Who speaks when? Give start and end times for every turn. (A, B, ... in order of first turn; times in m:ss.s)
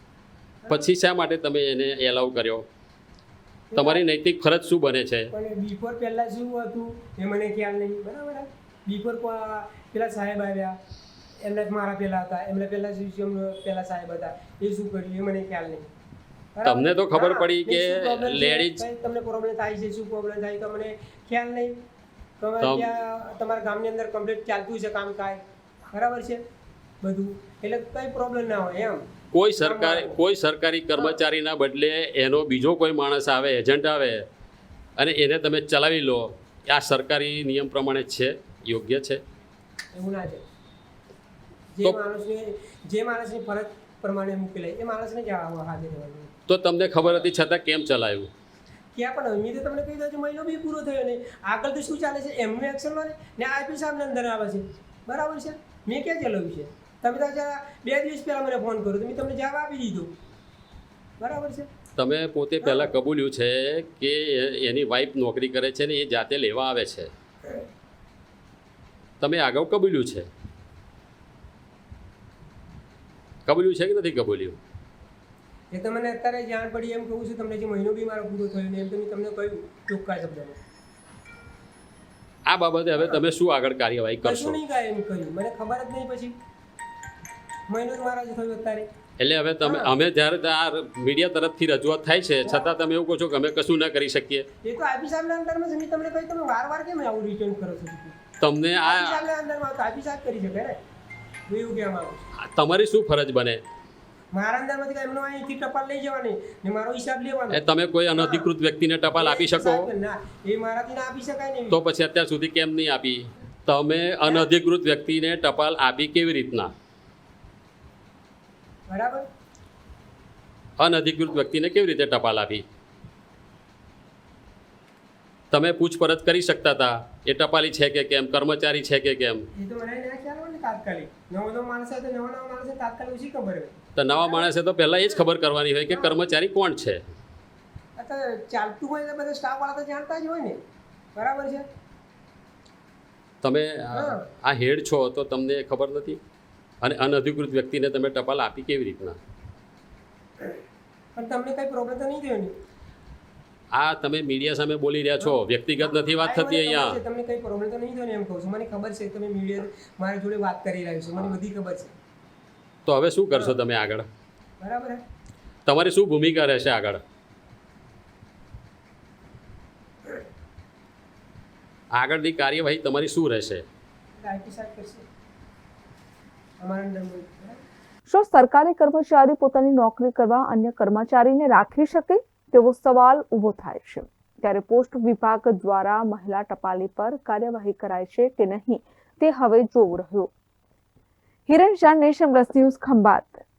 0:00.6-0:00.9 A
0:00.7-0:02.7 B
0:03.7-0:04.0 A
0:03.8-0:05.3 B
0:05.3-0:10.8 A
0:11.4-0:15.9 A
0:16.5-0:21.8 A
0:16.6-0:18.9 B
0:22.4-0:26.4 A
0:22.6-0:22.9 B
0:27.0-0:29.0 A
0:29.3-0:34.2 B
0:29.6-0:30.2 A
0:35.0-0:39.2 B
0:39.9-0:40.5 A
0:41.7-0:46.3 A
0:46.5-0:48.3 B
0:47.0-0:47.3 A
0:48.9-1:00.1 A
1:01.2-1:01.7 A
1:02.0-1:07.1 B
1:02.6-1:02.9 A
1:09.2-1:10.3 B
1:13.5-1:14.6 B
1:15.7-1:20.6 A
1:22.5-1:24.6 B
1:24.2-1:26.4 A
1:27.7-1:28.9 A
1:29.2-1:34.5 B
1:29.6-1:29.9 A
1:32.4-1:32.8 A
1:34.6-1:38.2 A
1:38.4-1:39.3 B
1:38.8-1:40.8 A
1:41.5-1:42.2 A
1:42.4-1:43.6 B
1:44.3-1:48.5 A
1:47.5-1:49.9 B
1:49.2-1:51.8 A
1:51.7-1:56.7 B
1:54.2-1:54.5 A
1:58.9-1:59.3 A
2:00.8-2:02.6 B
2:05.5-2:09.5 B
2:09.5-2:15.3 A
2:14.0-2:17.0 B
2:15.9-2:16.2 A
2:18.0-2:20.6 A
2:21.2-2:21.7 A
2:23.4-2:26.2 B
2:23.9-2:24.2 A
2:26.8-2:29.2 B
2:31.2-2:32.6 A
2:33.7-2:37.0 B
2:35.2-2:41.9 A
2:42.9-2:44.1 B
2:43.3-2:43.6 A
2:44.6-2:45.0 A
2:45.7-2:47.0 B
2:52.0-2:53.6 B
2:54.2-2:55.1 A
2:56.6-2:57.6 A
2:58.1-3:10.3 C
3:11.5-3:13.4 C